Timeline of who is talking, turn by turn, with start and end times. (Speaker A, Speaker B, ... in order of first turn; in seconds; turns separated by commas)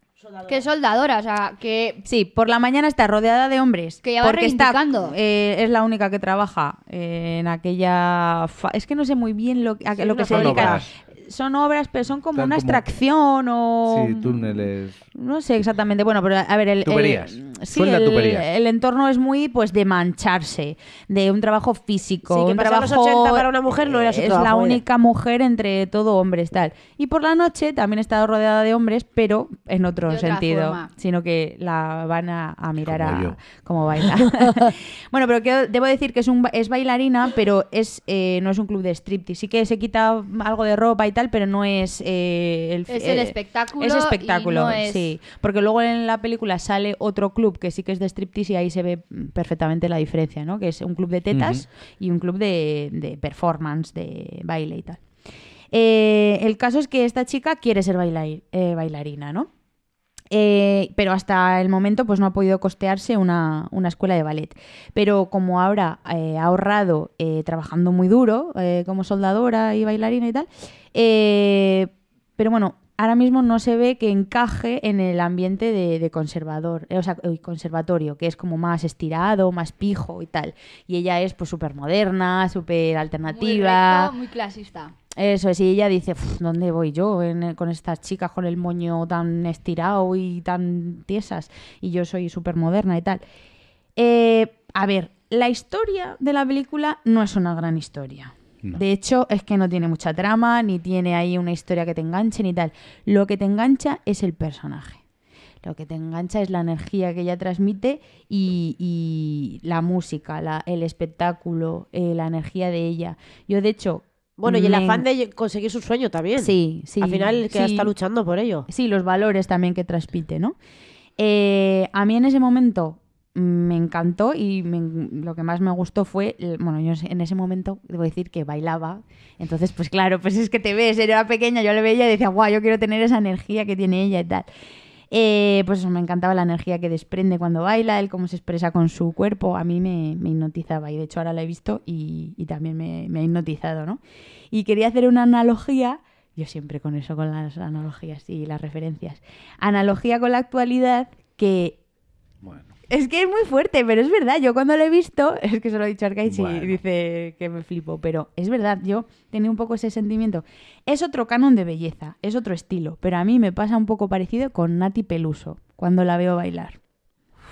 Speaker A: 0.2-0.6, Speaker B: 0.5-2.0, Speaker C: 2.0-55.0, Speaker B: 4.0-5.1, Speaker A: 9.9-10.8, Speaker D: 10.2-10.9, Speaker D: 12.3-12.8, Speaker D: 13.9-15.0, Speaker D: 16.8-18.5, Speaker A: 22.3-24.8, Speaker B: 30.1-30.9, Speaker D: 32.8-33.4, Speaker B: 42.9-45.1, Speaker D: 51.3-51.6, Speaker C: 55.7-59.5, Speaker C: 60.3-84.1, Speaker B: 83.3-84.9, Speaker C: 85.1-93.2, Speaker C: 94.0-105.0, Speaker C: 105.6-115.0, Speaker A: 114.4-118.7, Speaker C: 116.4-117.9, Speaker C: 118.7-120.5, Speaker C: 121.2-134.5, Speaker C: 135.1-144.0, Speaker C: 144.5-151.8, Speaker D: 152.4-152.7, Speaker C: 152.9-166.8, Speaker D: 156.2-156.8